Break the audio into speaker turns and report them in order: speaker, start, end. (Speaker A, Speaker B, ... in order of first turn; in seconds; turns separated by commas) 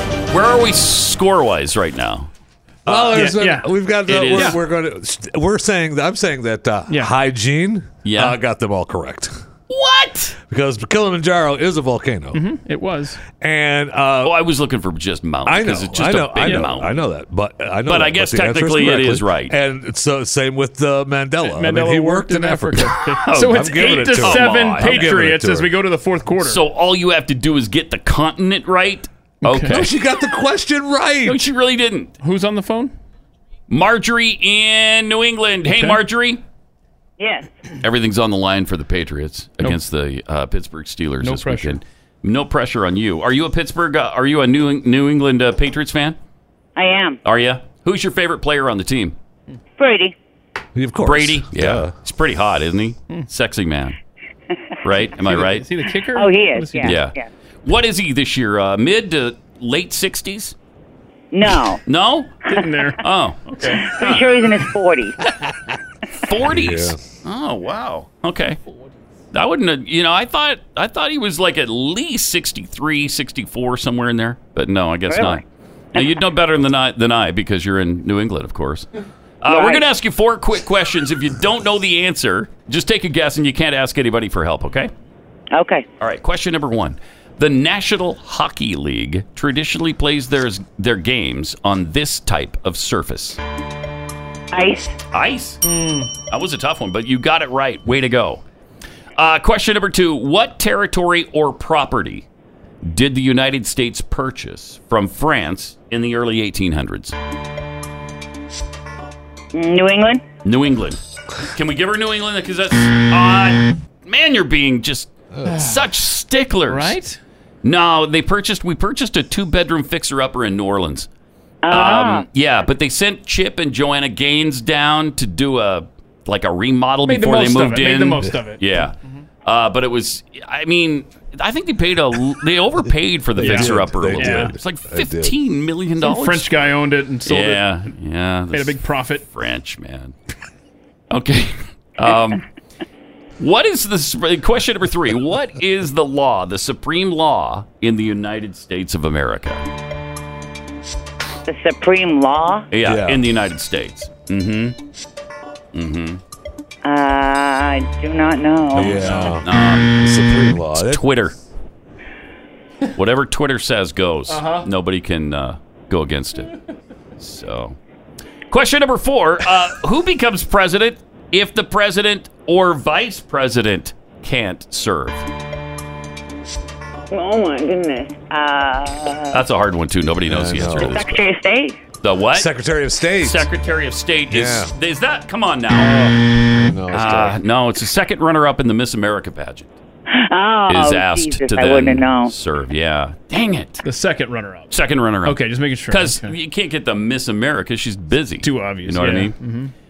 Speaker A: 0.3-2.3, Speaker A: 2.9-3.5, Speaker B: 2.9-9.4, Speaker C: 3.1-3.7, Speaker A: 4.0-4.6, Speaker C: 4.3-4.6, Speaker A: 8.0-8.4, Speaker A: 9.7-10.4, Speaker B: 10.5-12.4, Speaker C: 12.3-13.2, Speaker B: 13.4-14.4, Speaker A: 14.2-17.0, Speaker B: 15.5-25.7, Speaker C: 16.4-16.7, Speaker A: 17.9-19.6, Speaker C: 21.4-26.6, Speaker A: 23.2-25.2, Speaker A: 26.4-29.9, Speaker C: 29.4-29.9, Speaker B: 29.6-31.4, Speaker A: 31.3-32.1, Speaker C: 32.2-32.9, Speaker A: 33.7-36.4, Speaker C: 35.7-36.0, Speaker D: 37.2-37.5, Speaker A: 37.8-46.2, Speaker C: 41.2-41.8, Speaker D: 46.8-47.2, Speaker A: 47.2-49.2, Speaker D: 49.8-50.1, Speaker B: 50.8-51.9, Speaker A: 51.0-54.0, Speaker A: 54.8-55.7, Speaker C: 55.2-57.0, Speaker D: 56.1-57.3, Speaker A: 56.8-60.5, Speaker D: 61.3-61.8, Speaker A: 61.8-62.4, Speaker C: 62.5-63.0, Speaker A: 63.0-64.2, Speaker C: 63.6-64.2, Speaker D: 63.6-65.2, Speaker A: 66.2-68.6, Speaker B: 66.4-67.0, Speaker A: 69.3-75.4, Speaker D: 75.1-75.4, Speaker A: 76.0-78.9, Speaker A: 79.4-84.9, Speaker D: 79.5-79.8, Speaker D: 85.5-85.9, Speaker A: 86.0-93.4, Speaker D: 94.5-95.0, Speaker A: 95.1-95.6, Speaker C: 95.6-96.1, Speaker A: 96.3-98.4, Speaker A: 99.2-102.3, Speaker A: 102.8-107.2, Speaker D: 109.5-110.2, Speaker A: 110.4-111.0, Speaker A: 111.5-117.0, Speaker B: 115.3-115.7, Speaker C: 116.7-117.2, Speaker A: 117.6-121.1, Speaker D: 121.6-122.3, Speaker A: 121.7-136.5, Speaker C: 127.1-129.2, Speaker B: 133.4-135.4, Speaker C: 133.4-134.5, Speaker C: 136.0-137.9, Speaker A: 137.3-140.2, Speaker C: 138.5-139.2, Speaker A: 141.1-142.4, Speaker A: 143.4-149.6, Speaker D: 151.5-152.7, Speaker A: 152.7-154.8, Speaker B: 152.8-153.2, Speaker A: 155.7-156.2, Speaker D: 156.8-159.1, Speaker B: 158.7-161.1, Speaker A: 158.8-161.3, Speaker A: 162.9-166.5, Speaker C: 164.3-164.7, Speaker A: 167.2-167.8, Speaker A: 168.5-175.3, Speaker D: 177.1-179.4, Speaker A: 179.3-181.2, Speaker B: 180.3-181.2, Speaker D: 180.8-181.8, Speaker A: 182.0-182.5, Speaker B: 182.3-183.5, Speaker A: 183.2-186.1, Speaker B: 184.3-184.7, Speaker B: 186.5-187.4, Speaker A: 186.9-189.8, Speaker D: 190.1-192.3, Speaker A: 190.7-193.8, Speaker C: 193.8-196.4, Speaker A: 194.7-195.4, Speaker A: 195.9-199.3, Speaker C: 198.4-199.7